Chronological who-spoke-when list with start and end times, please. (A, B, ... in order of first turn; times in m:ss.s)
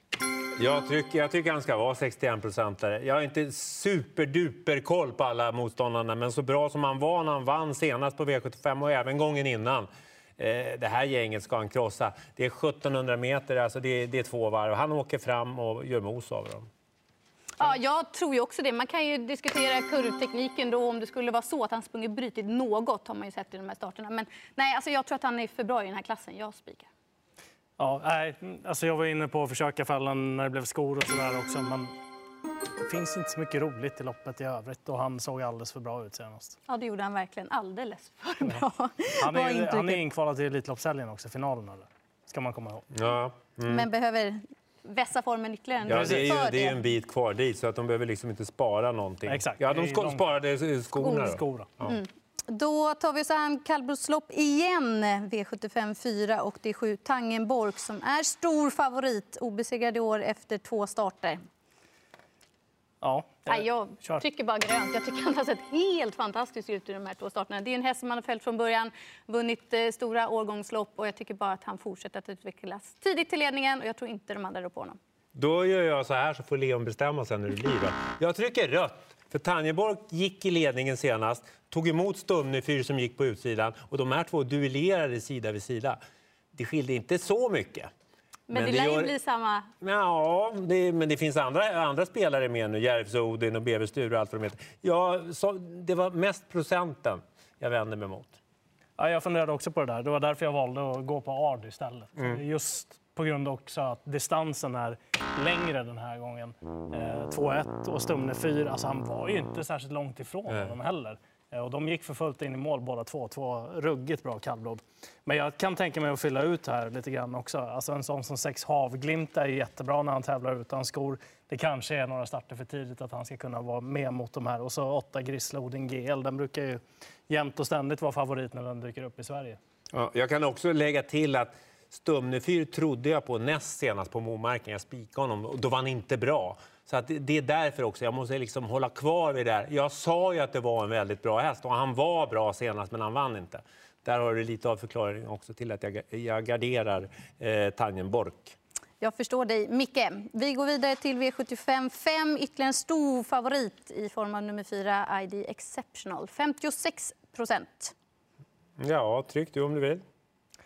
0:00.6-0:09.9 A
0:10.4-0:16.7 A
0:17.6-0:26.9 B
0:27.8-0:31.9 C
0:32.8-0:36.6 C
0:36.7-0:40.0 B
0:39.2-0:42.9 C
0:42.9-0:43.8 A
0:43.7-0:46.8 B
0:45.8-0:52.0 A
0:45.9-0:46.3 C
0:49.3-0:50.2 C
0:51.0-0:51.7 C
0:51.8-1:01.4 B
1:03.0-1:04.2 C
1:03.5-1:15.0 B
1:15.3-1:26.0 A
1:26.5-1:27.9 A
1:28.5-1:29.7 B
1:28.5-1:29.1 A
1:29.8-1:38.4 A
1:39.0-2:09.6 C
2:09.9-2:28.5 A
2:29.0-2:37.9 B
2:38.8-2:40.0 A